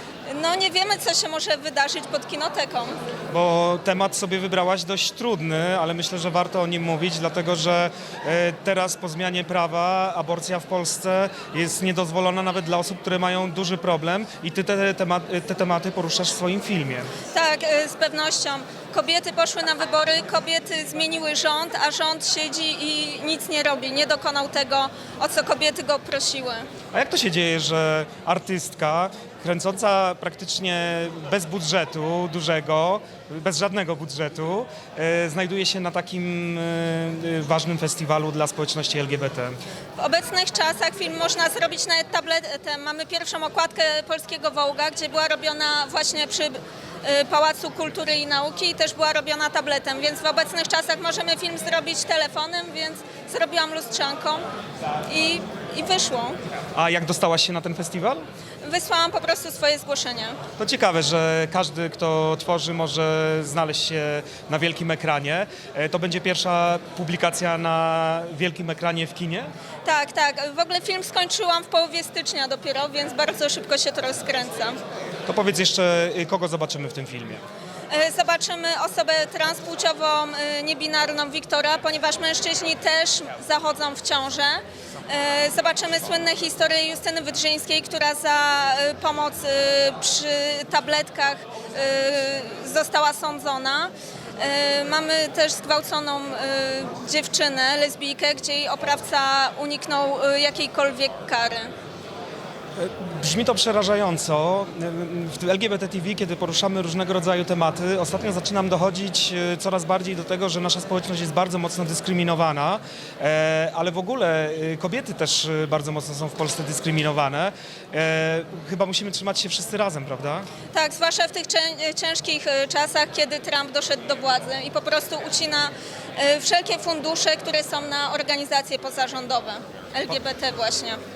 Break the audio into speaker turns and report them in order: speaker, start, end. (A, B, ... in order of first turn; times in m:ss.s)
0:00.3-0:03.0 A
0:03.3-0:17.1 B
0:17.3-0:26.7 A
0:26.9-0:39.6 B
0:40.0-0:54.4 A
0:55.1-0:56.4 A
0:56.7-0:58.3 B
0:58.6-1:00.4 A
1:00.6-1:09.5 B
1:09.8-1:14.8 A
1:15.3-1:17.4 B
1:17.9-1:41.7 A
1:42.8-2:00.5 B
2:00.7-2:11.0 A